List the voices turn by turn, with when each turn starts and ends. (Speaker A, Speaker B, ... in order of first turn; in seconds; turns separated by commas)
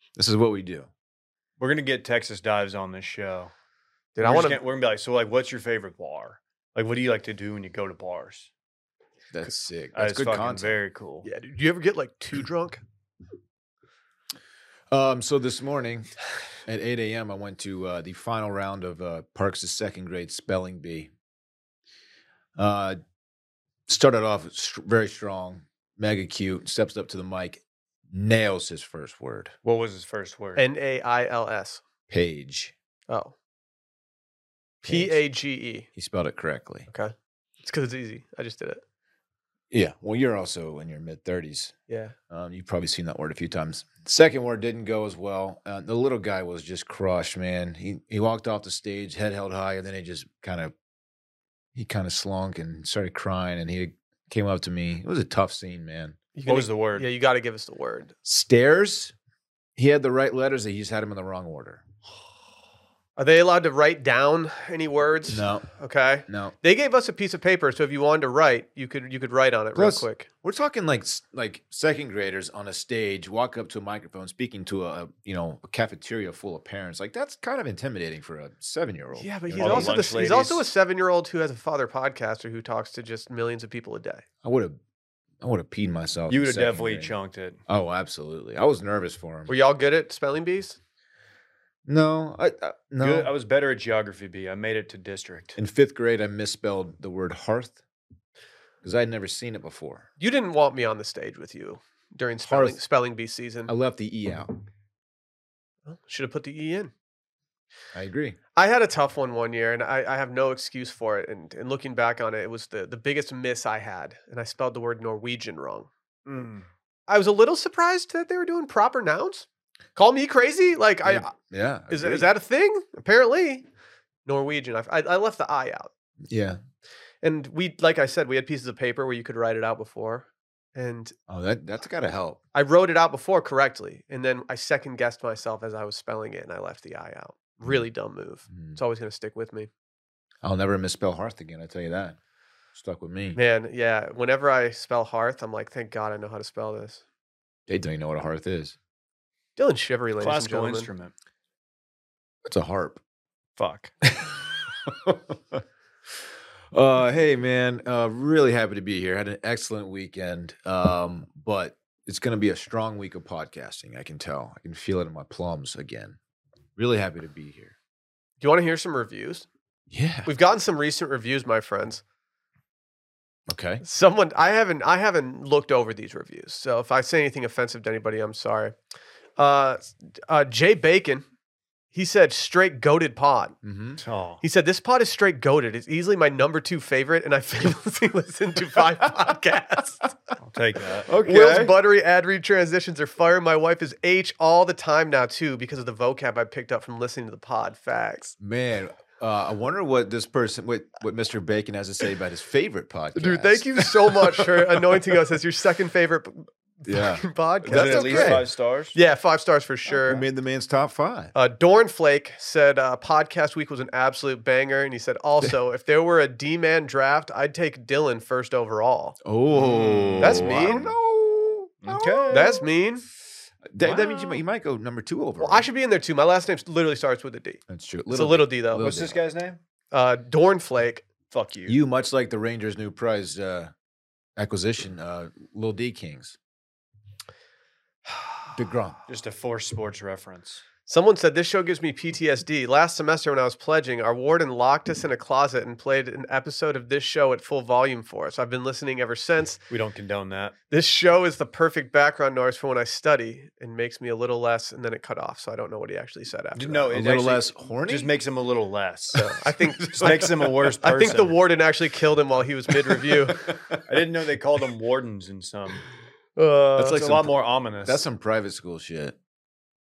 Speaker A: 0.1-0.9, Speaker B: 1.6-3.5, Speaker C: 4.2-4.6, Speaker B: 4.2-8.5, Speaker A: 9.3-10.8, Speaker B: 9.9-11.3, Speaker C: 11.2-12.8, Speaker A: 14.9-16.1, Speaker A: 16.6-21.1, Speaker A: 22.6-23.0, Speaker A: 23.9-29.5, Speaker B: 29.6-30.6, Speaker C: 30.6-31.8, Speaker A: 32.1-32.7, Speaker C: 33.1-33.3, Speaker A: 34.8-35.2, Speaker C: 34.8-35.9, Speaker A: 35.9-36.9, Speaker C: 36.9-38.8, Speaker A: 39.7-41.7, Speaker C: 41.9-42.1, Speaker A: 42.3-50.7, Speaker A: 51.7-56.2, Speaker C: 56.3-58.1, Speaker B: 56.5-57.1, Speaker A: 58.2-59.1, Speaker A: 59.8-61.8, Speaker C: 63.2-70.3, Speaker A: 65.3-65.7, Speaker A: 66.3-66.5, Speaker A: 69.7-80.0, Speaker C: 79.1-84.2, Speaker B: 79.6-80.6, Speaker A: 84.4-84.8, Speaker A: 85.4-87.1, Speaker B: 86.3-87.6, Speaker A: 87.7-89.5, Speaker C: 89.5-90.8, Speaker A: 91.8-93.3, Speaker B: 93.0-95.6, Speaker A: 95.6-97.8, Speaker A: 98.8-100.1, Speaker C: 100.2-103.7, Speaker A: 102.4-102.8, Speaker A: 103.7-104.5, Speaker C: 105.8-106.9, Speaker A: 107.9-108.4, Speaker C: 108.5-115.9, Speaker B: 116.2-116.7, Speaker C: 117.1-121.3, Speaker A: 121.0-122.3, Speaker C: 121.9-123.6, Speaker C: 124.2-125.9, Speaker A: 126.2-126.6, Speaker C: 127.2-131.1, Speaker A: 131.3-132.4, Speaker C: 132.5-139.7, Speaker A: 138.5-138.8, Speaker A: 140.4-142.2, Speaker A: 142.7-143.4, Speaker C: 143.3-147.0, Speaker A: 147.7-148.8, Speaker C: 149.6-150.9, Speaker B: 150.2-151.1, Speaker A: 152.4-153.0, Speaker B: 153.6-153.9, Speaker A: 154.2-155.6, Speaker A: 156.7-166.2, Speaker A: 166.8-167.7, Speaker C: 168.4-169.5, Speaker A: 169.9-170.3, Speaker C: 170.2-172.0, Speaker A: 173.5-173.8, Speaker C: 173.8-178.7, Speaker C: 179.4-181.2, Speaker C: 181.9-183.6, Speaker A: 183.6-184.0, Speaker B: 184.0-184.4, Speaker C: 184.4-190.1, Speaker B: 190.4-191.7, Speaker A: 191.0-191.7, Speaker C: 191.2-198.3, Speaker A: 198.4-205.0, Speaker C: 203.1-210.2, Speaker A: 206.8-208.4, Speaker B: 207.7-208.9, Speaker A: 209.9-211.3, Speaker C: 211.3-219.2, Speaker A: 219.2-222.6, Speaker B: 219.5-220.9, Speaker C: 220.2-220.8, Speaker B: 221.8-222.7, Speaker C: 222.3-223.0, Speaker A: 223.7-225.7, Speaker B: 223.8-224.4, Speaker C: 225.4-228.8, Speaker A: 227.7-229.2, Speaker B: 228.8-229.6, Speaker C: 229.9-231.0, Speaker B: 231.3-231.8, Speaker A: 231.7-233.7, Speaker A: 234.3-236.4, Speaker A: 238.5-239.0, Speaker B: 239.1-240.6, Speaker C: 240.9-249.6, Speaker B: 249.7-250.5, Speaker C: 250.7-257.0, Speaker B: 256.5-259.2, Speaker A: 256.9-258.1, Speaker C: 259.1-263.5, Speaker A: 259.5-260.7, Speaker B: 259.9-261.4, Speaker A: 262.9-263.8, Speaker B: 263.9-265.8, Speaker C: 266.4-267.0, Speaker B: 266.8-268.0, Speaker A: 266.8-269.1